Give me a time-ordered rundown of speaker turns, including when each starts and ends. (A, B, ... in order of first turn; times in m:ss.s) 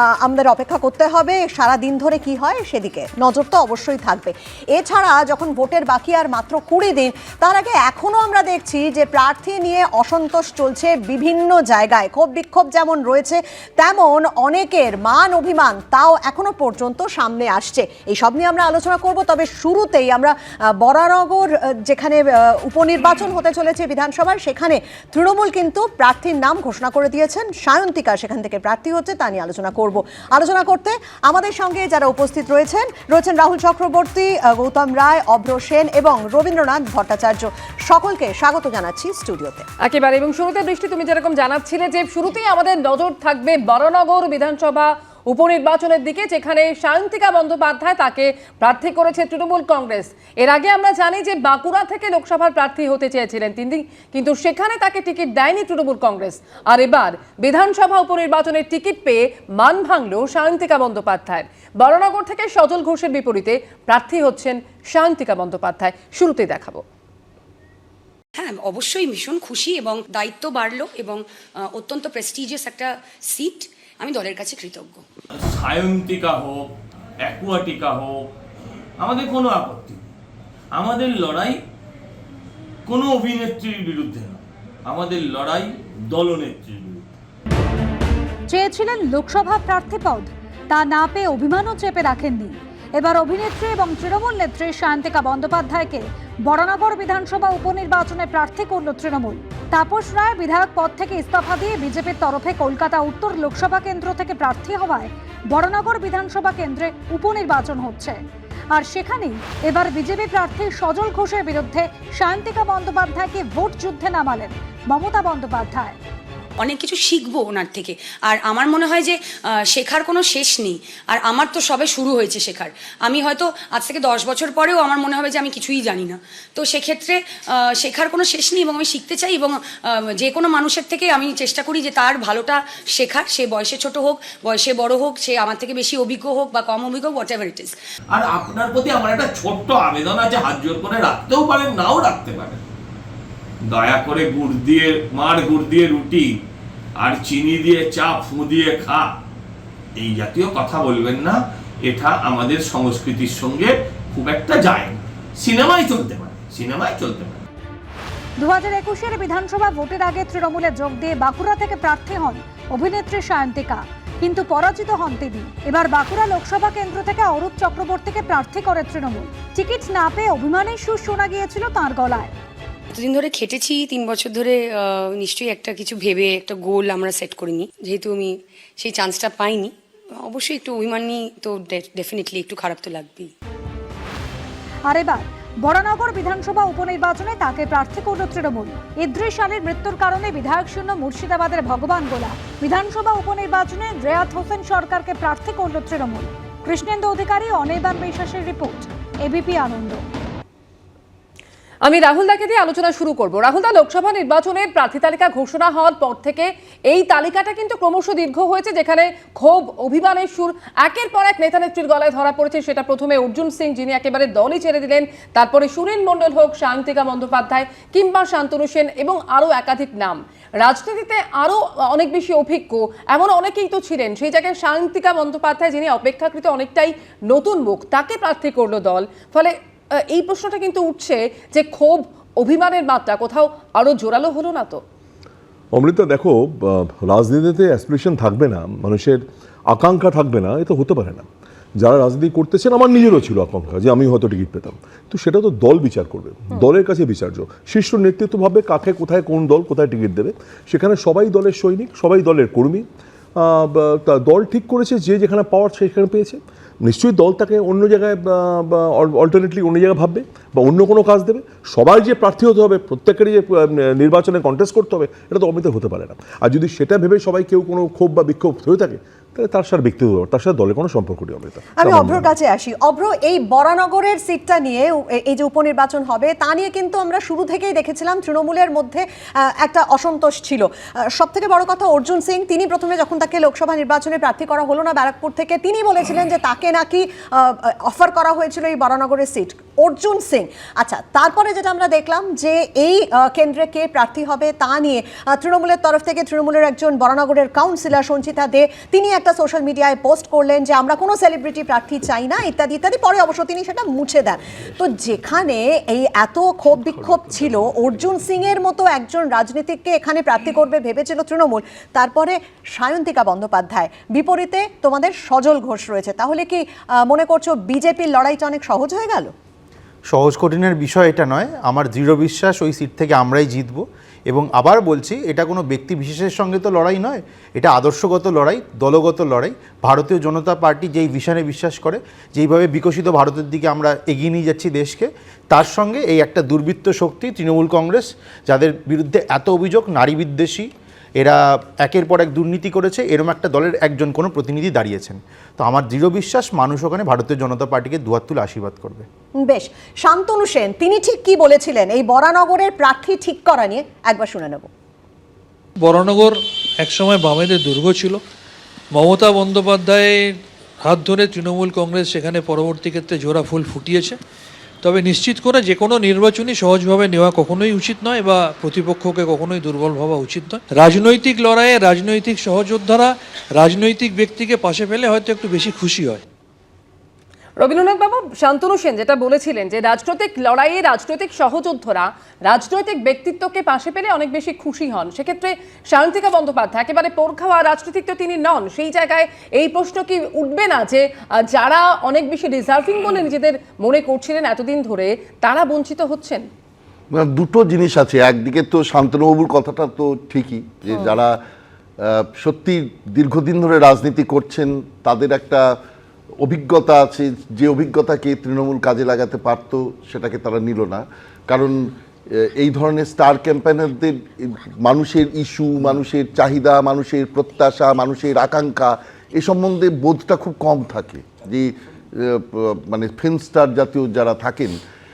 0:00.2-0:39.7 A
0:39.8-1:06.8 B
1:08.4-1:15.0 C
1:15.4-1:16.7 D
1:17.2-1:18.2 D
1:19.0-1:20.0 D
1:20.7-1:21.6 D
1:22.9-1:27.0 D
1:28.5-1:48.2 E
1:48.7-1:56.0 E
1:56.6-2:17.8 C
2:18.1-2:22.6 D
2:23.7-2:26.3 D
2:27.0-2:29.1 D
2:30.0-2:37.4 D
2:38.4-2:52.3 E
2:52.9-3:03.3 C
3:04.9-3:20.0 E
3:21.8-3:49.6 B
3:50.1-3:54.8 B
3:55.7-4:01.3 F
4:01.8-4:12.8 F
4:13.4-4:32.3 F
4:31.8-5:19.3 A
5:20.1-5:40.7 G
5:41.2-5:49.0 G
5:49.4-5:54.7 A
5:55.8-5:58.2 H
5:59.0-6:04.2 H
6:04.8-6:16.2 H
6:17.6-6:36.5 B
6:37.1-6:41.4 I
6:42.1-6:45.6 I
6:46.4-6:51.9 I
6:52.6-7:04.8 I